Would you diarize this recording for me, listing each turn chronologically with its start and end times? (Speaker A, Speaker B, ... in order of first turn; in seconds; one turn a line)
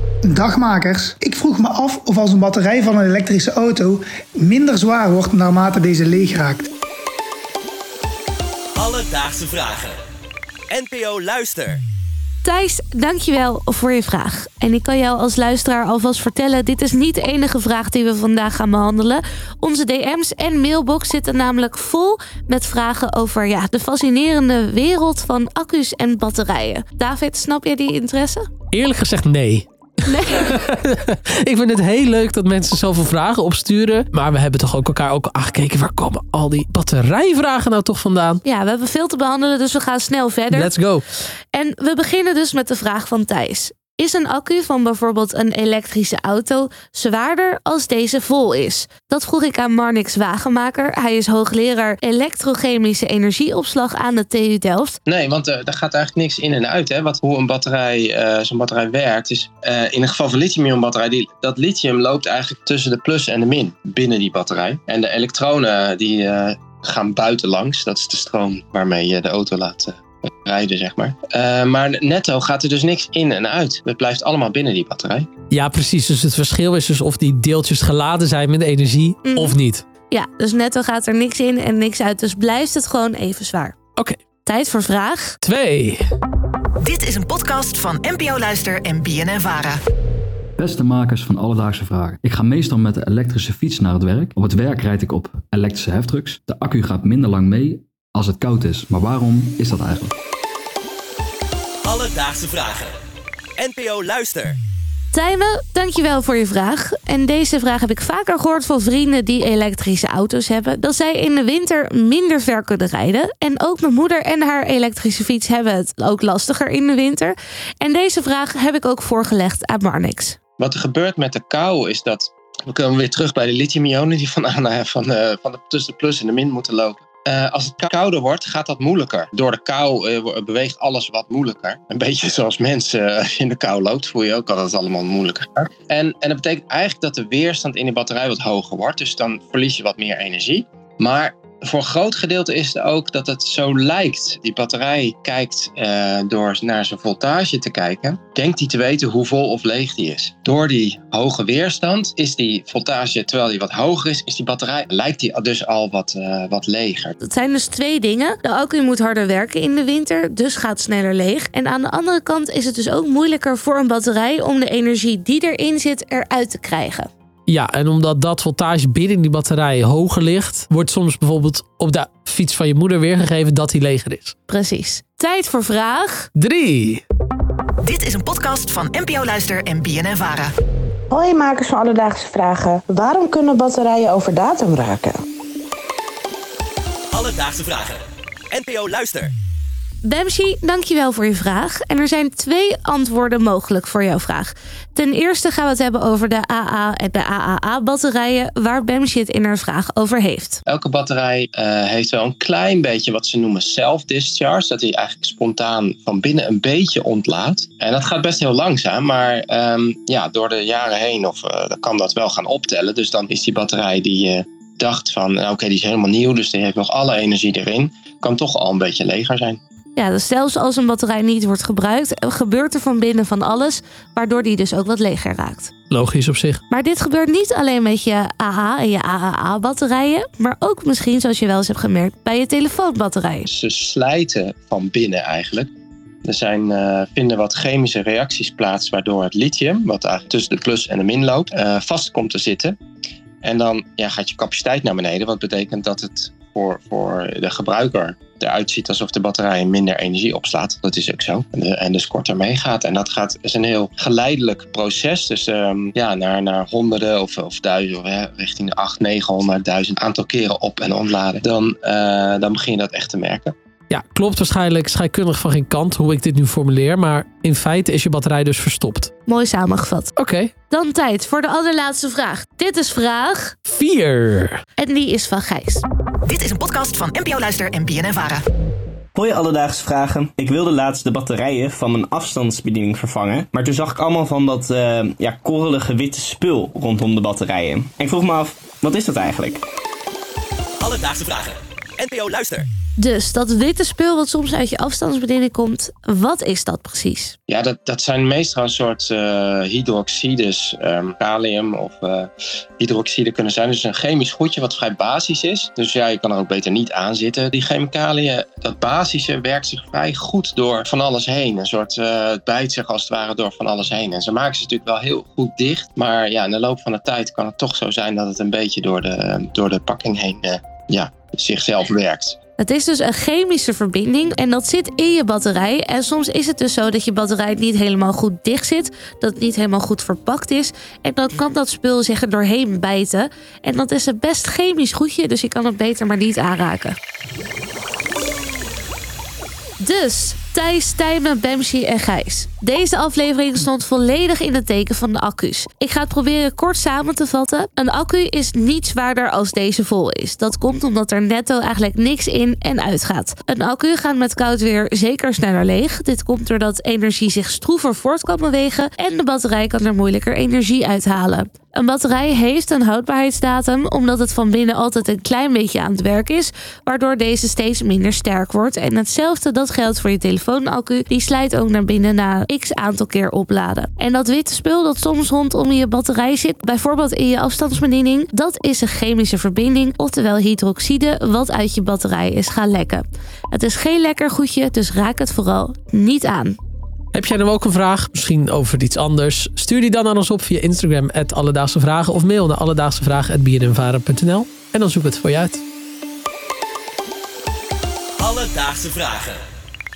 Speaker A: 0.2-6.7
Speaker B: 8.8-9.9
Speaker B: 10.7-11.8
Speaker C: 12.4-28.4
Speaker D: 28.7-38.4
Speaker C: 30.1-30.4
Speaker C: 38.4-40.7
Speaker D: 40.5-41.0
Speaker C: 41.5-55.0
Speaker E: 55.0-75.3
Speaker D: 75.5-79.8
Speaker C: 79.2-79.6
Speaker C: 80.1-83.8
Speaker C: 84.4-85.4
Speaker D: 85.4-86.0
Speaker F: 86.8-89.7
Speaker G: 90.6-100.1
Speaker B: 101.8-102.9
Speaker B: 103.6-104.6
Speaker C: 105.1-120.4
Speaker E: 120.6-157.2
Speaker C: 157.2-167.1
Speaker D: 167.5-174.3
Speaker C: 174.5-176.3
Speaker D: 176.3-177.0
Speaker F: 177.8-180.5
Speaker H: 181.1-185.2
Speaker B: 187.1-189.3
Speaker C: 190.0-200.6
Speaker E: 200.7-219.6
Speaker C: 220.0-225.7
Speaker D: 225.9-226.6
Speaker C: 226.7-233.5
Speaker E: 233.5-235.7
Speaker E: 236.2-242.8
Speaker E: 243.4-263.5
Speaker D: 263.9-269.1
Speaker C: 269.3-270.1
Speaker D: 270.1-270.5
Speaker C: 270.7-273.6
Speaker D: 273.6-274.6
Speaker C: 274.8-275.8
Speaker F: 276.3-278.3
Speaker I: 279.1-289.6
Speaker B: 290.8-292.7
Speaker C: 293.0-297.3
Speaker E: 297.5-322.4
Speaker C: 322.6-337.0
Speaker C: 339.8-386.6
Speaker D: 387.1-395.6
Speaker B: 398.2-399.4